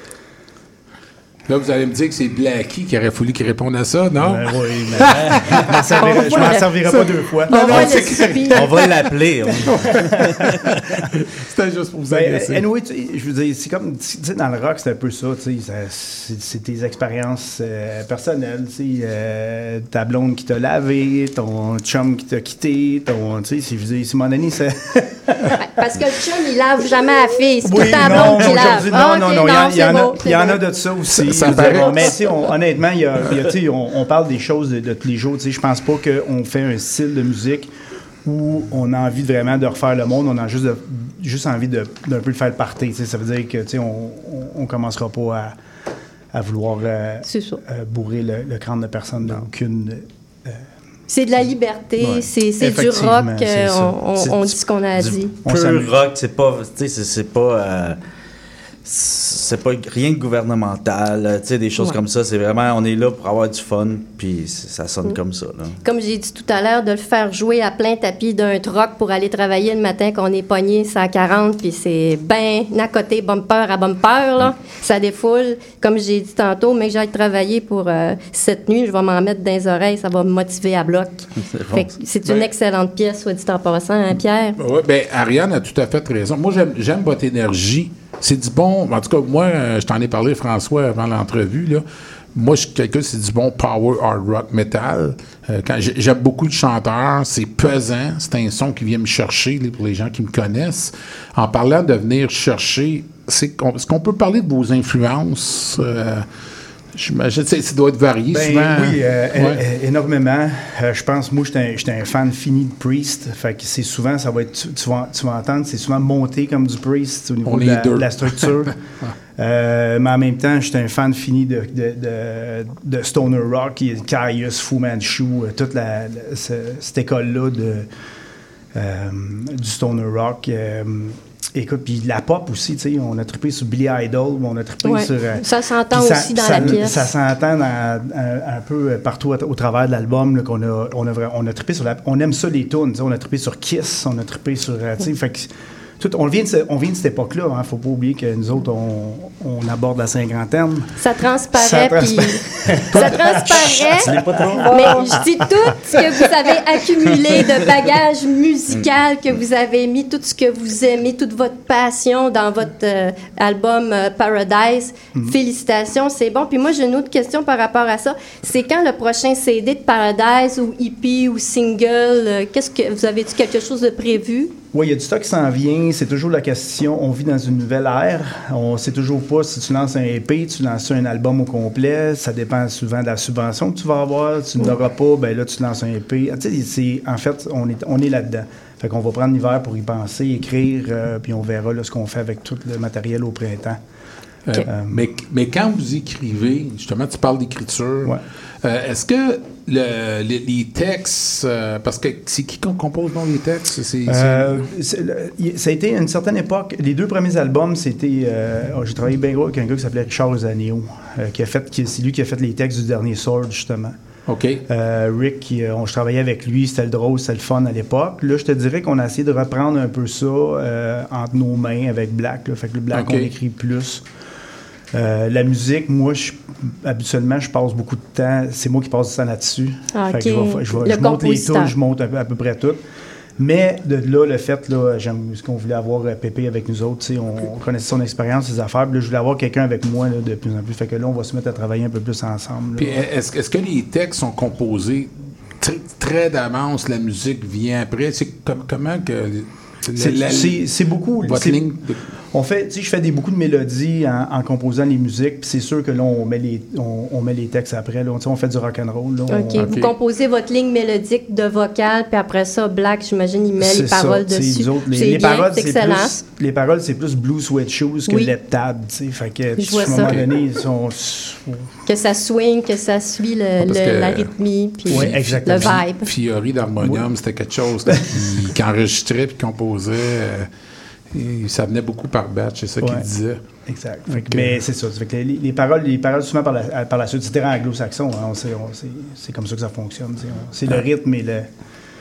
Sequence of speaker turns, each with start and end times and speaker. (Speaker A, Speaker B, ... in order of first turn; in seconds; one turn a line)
Speaker A: 1.5-9.0
Speaker B: 4.2-8.1
Speaker C: 7.5-8.7
Speaker D: 8.5-10.0
Speaker B: 9.6-10.5
Speaker A: 9.7-12.6
Speaker B: 12.1-25.6
Speaker C: 25.6-30.6
Speaker B: 27.6-37.7
Speaker A: 31.2-32.1
Speaker B: 38.2-45.6
Speaker B: 46.3-50.7
Speaker C: 47.2-47.6
Speaker C: 51.1-55.4
Speaker B: 52.6-54.0
Speaker D: 54.2-58.0
Speaker B: 55.4-55.9
Speaker D: 58.8-65.7
Speaker C: 65.8-84.5
Speaker D: 81.4-81.9
Speaker A: 84.6-91.8
Speaker A: 92.3-106.3
Speaker A: 106.9-109.6
Speaker B: 108.3-118.7
Speaker A: 117.5-118.7
Speaker B: 119.4-127.9
Speaker B: 128.7-150.9
Speaker C: 134.8-137.0
Speaker C: 151.0-152.4
Speaker B: 151.5-155.2
Speaker C: 152.9-154.1
Speaker D: 154.0-155.2
Speaker C: 154.7-174.5
Speaker B: 174.7-193.8
Speaker A: 194.5-204.7
Speaker B: 194.6-195.1
Speaker B: 204.1-214.0
Speaker A: 214.3-214.6
Speaker B: 214.7-224.1
Speaker A: 222.9-223.3
Speaker B: 224.9-232.8
Speaker C: 229.9-231.7
Speaker B: 233.4-243.0
Speaker A: 242.8-250.7
Speaker B: 249.9-251.7
Speaker A: 251.2-252.0
Speaker B: 252.3-259.7
Speaker C: 259.3-266.1
Speaker A: 259.6-259.9
Speaker B: 263.6-271.7
Speaker C: 269.6-270.1
Speaker C: 271.9-276.0
Speaker A: 273.6-274.3
Speaker B: 274.9-275.8
Speaker A: 274.9-280.5
Speaker B: 276.8-277.1
Speaker B: 277.9-278.5
Speaker A: 281.1-283.4
Speaker B: 283.6-291.5
Speaker A: 284.1-284.6